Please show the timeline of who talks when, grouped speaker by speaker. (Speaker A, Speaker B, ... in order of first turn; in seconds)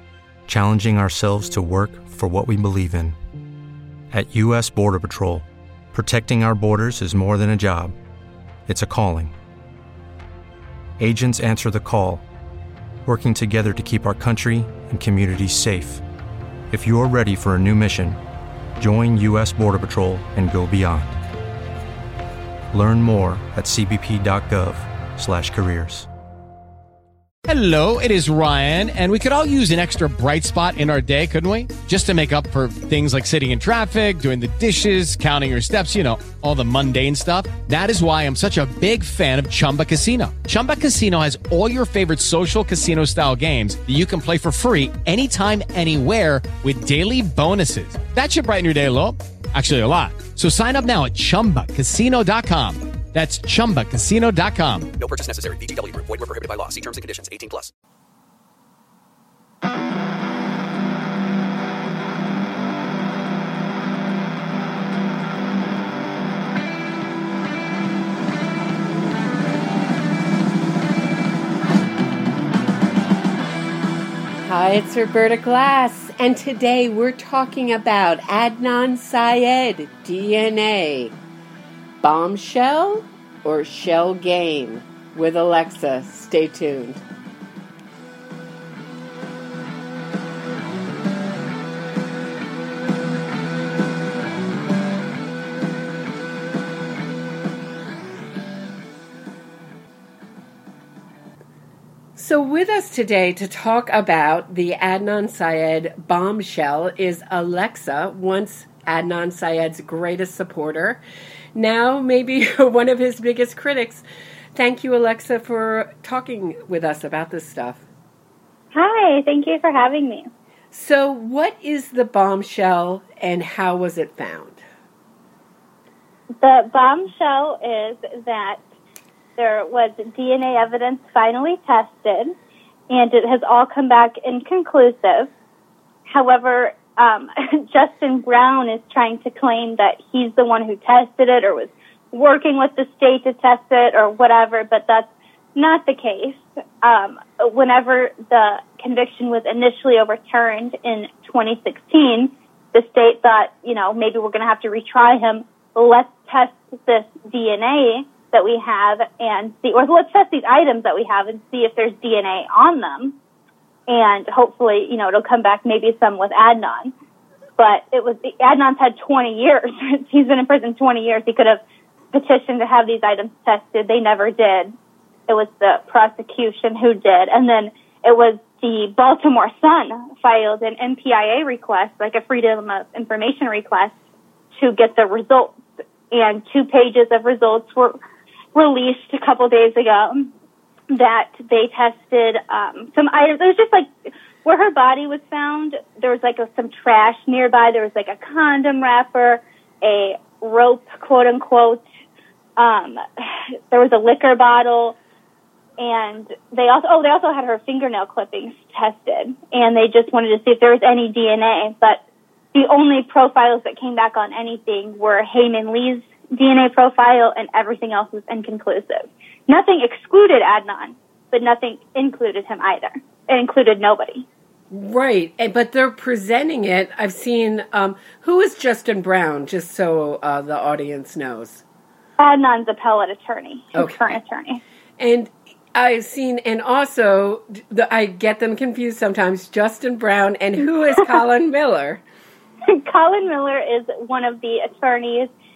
Speaker A: 0.5-3.2, 4.1-7.9, 8.7-9.3, 11.0-12.2, 13.0-16.0, 16.7-18.2, 18.8-21.1, 22.7-26.1
Speaker B: 27.4-54.9
Speaker C: 54.9-57.7
Speaker D: 74.4-81.2, 82.0-87.0, 102.2-111.0, 111.5-114.0, 114.5-117.8, 120.7-124.6, 224.7-231.6, 233.7-234.1, 235.0-242.0
Speaker E: 118.7-120.3, 126.4-128.6, 129.4-132.3, 132.9-135.3, 136.1-163.2, 163.9-166.9, 167.6-171.6, 172.1-174.7, 175.3-183.9, 184.6-185.6, 186.1-188.0, 188.5-190.3, 190.9-201.8, 202.6-205.0, 205.8-212.0, 212.5-224.2, 232.2-234.6, 242.7-245.3